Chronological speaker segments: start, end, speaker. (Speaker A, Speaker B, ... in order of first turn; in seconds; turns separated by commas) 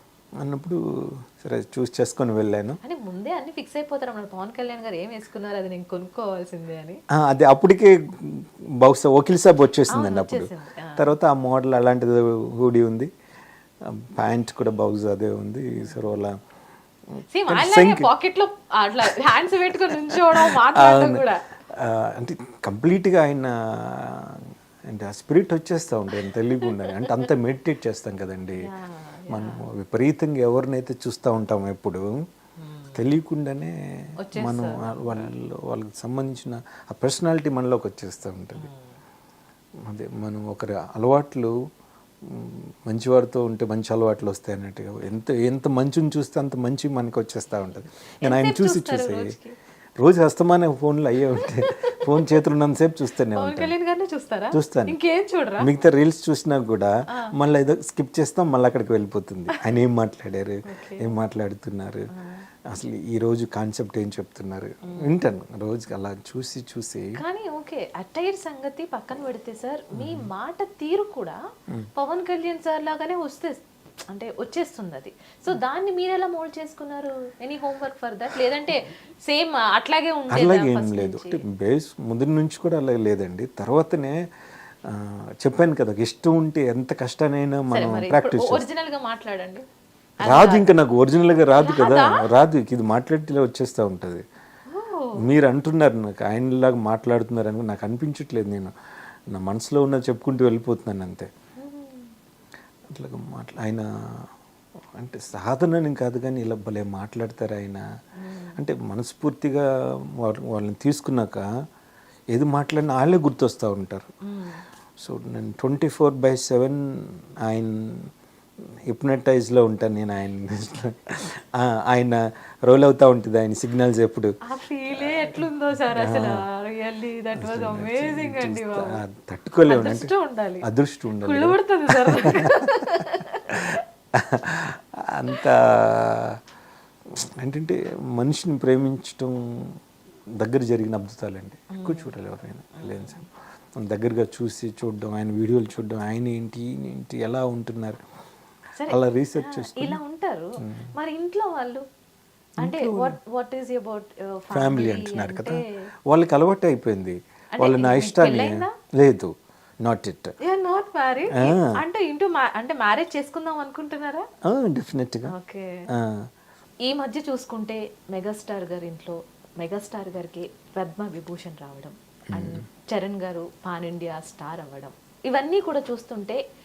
Speaker A: 0.4-2.8, Speaker B: 2.8-7.0, Speaker A: 7.2-13.1, Speaker B: 9.9-11.1, Speaker A: 13.8-16.4, Speaker A: 17.1-18.1, Speaker B: 17.3-21.5, Speaker A: 19.1-19.3, Speaker A: 19.9-28.7, Speaker B: 26.7-27.1, Speaker B: 28.6-29.7, Speaker A: 29.3-32.2, Speaker B: 32.6-33.0, Speaker A: 32.9-33.8, Speaker B: 34.2-35.3, Speaker A: 34.3-38.7, Speaker B: 38.6-38.9, Speaker A: 39.8-41.5, Speaker A: 42.2-49.4, Speaker B: 48.2-49.6, Speaker A: 50.0-53.7, Speaker B: 51.4-52.4, Speaker B: 53.3-55.7, Speaker A: 54.5-55.0, Speaker A: 55.6-62.1, Speaker B: 60.7-61.1, Speaker B: 62.1-62.5, Speaker A: 62.7-67.2, Speaker B: 64.8-65.1, Speaker B: 67.2-71.4, Speaker A: 69.9-70.3, Speaker B: 72.0-81.4, Speaker A: 80.3-84.2, Speaker A: 84.8-88.7, Speaker B: 87.7-89.6, Speaker B: 90.2-90.7, Speaker A: 90.2-94.2, Speaker B: 91.6-92.3, Speaker B: 94.7-95.2, Speaker A: 95.2-98.7, Speaker A: 99.3-101.3, Speaker B: 101.6-102.1, Speaker A: 102.9-104.3, Speaker A: 105.0-107.8, Speaker B: 108.2-108.6, Speaker A: 108.6-111.5, Speaker A: 112.3-114.1, Speaker B: 114.2-114.6, Speaker A: 115.0-118.1, Speaker A: 118.9-124.3, Speaker B: 124.5-129.0, Speaker A: 125.0-126.4, Speaker A: 127.4-130.1, Speaker B: 129.7-130.7, Speaker A: 130.6-136.4, Speaker B: 131.2-133.7, Speaker A: 137.1-139.8, Speaker A: 140.4-143.3, Speaker B: 141.7-142.1, Speaker B: 142.8-143.2, Speaker A: 143.8-148.0, Speaker B: 148.8-151.8, Speaker A: 148.9-150.0, Speaker A: 152.6-153.2, Speaker B: 152.6-155.8, Speaker A: 154.5-159.3, Speaker B: 157.6-158.7, Speaker A: 159.8-160.3, Speaker B: 160.4-164.3, Speaker A: 161.3-161.7, Speaker A: 164.4-165.3, Speaker B: 165.3-165.9, Speaker A: 165.9-166.3, Speaker B: 166.8-176.4, Speaker A: 172.3-172.6